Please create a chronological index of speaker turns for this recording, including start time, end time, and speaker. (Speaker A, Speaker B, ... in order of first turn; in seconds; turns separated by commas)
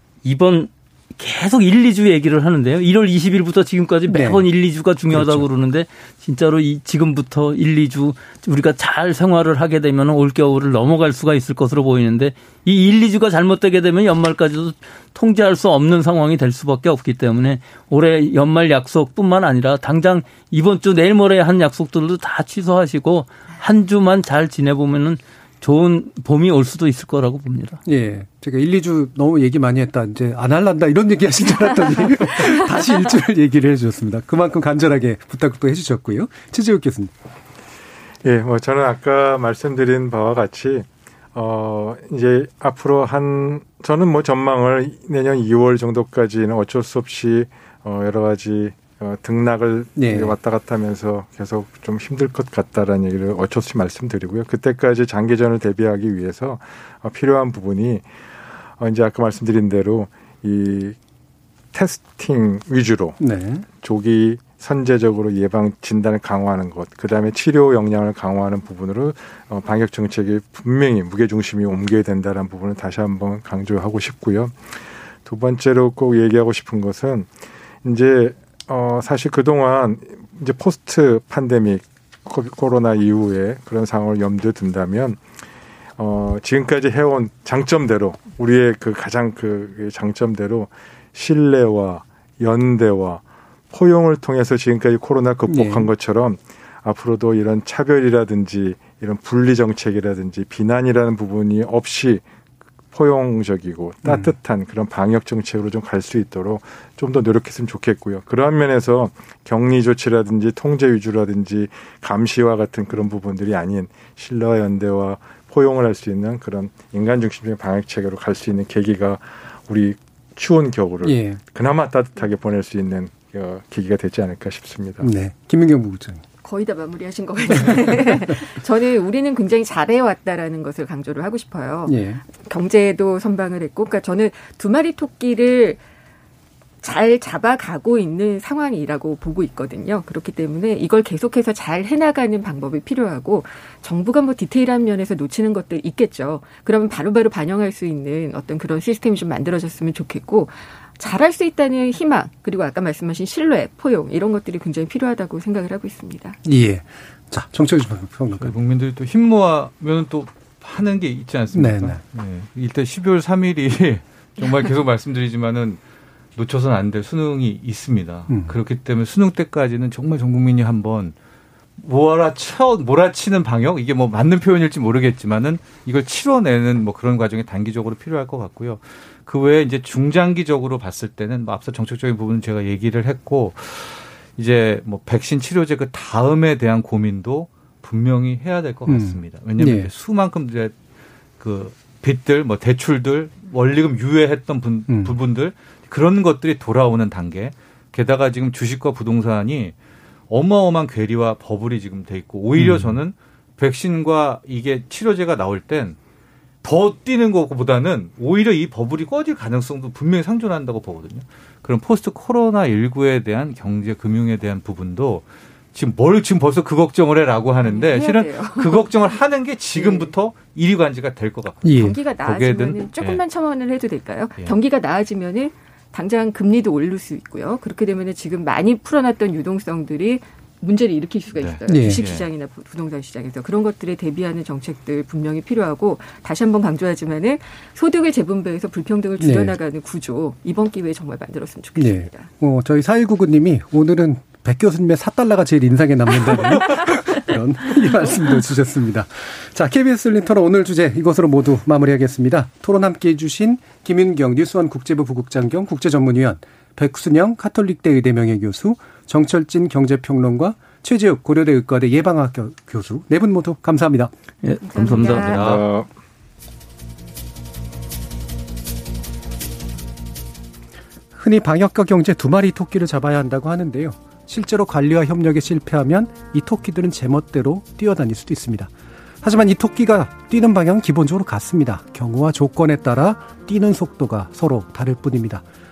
Speaker A: 0.2-27.8, Speaker B: 4.1-4.4, Speaker B: 5.1-5.5, Speaker B: 27.9-37.1, Speaker C: 38.2-58.1, Speaker B: 50.0-50.4, Speaker C: 58.8-61.0, Speaker C: 61.7-63.2, Speaker B: 63.2-63.7, Speaker C: 63.8-74.6, Speaker C: 75.2-77.3, Speaker C: 77.8-85.2, Speaker C: 86.0-102.2, Speaker B: 95.5-95.9, Speaker C: 102.9-125.1, Speaker B: 104.0-104.3, Speaker B: 121.0-121.4, Speaker B: 125.0-126.2, Speaker D: 126.4-135.8, Speaker B: 127.5-128.3, Speaker B: 131.9-132.2, Speaker D: 136.8-156.4, Speaker B: 156.4-158.5, Speaker E: 158.4-165.8, Speaker B: 161.5-162.0, Speaker E: 166.4-171.2, Speaker E: 171.8-190.7, Speaker B: 188.9-189.9, Speaker E: 191.4-199.8, Speaker B: 194.9-195.2, Speaker E: 200.3-206.0, Speaker B: 202.6-202.9, Speaker E: 206.6-223.2, Speaker D: 217.6-219.2, Speaker D: 219.8-220.1, Speaker B: 221.6-221.9, Speaker D: 221.7-242.3, Speaker E: 231.3-232.3, Speaker B: 231.7-232.0, Speaker B: 239.2-239.6, Speaker B: 241.8-264.1, Speaker D: 246.6-246.9, Speaker A: 264.4-265.3, Speaker D: 264.6-265.6, Speaker E: 265.1-265.7, Speaker C: 265.3-265.9, Speaker B: 271.2-278.7, Speaker B: 279.2-285.4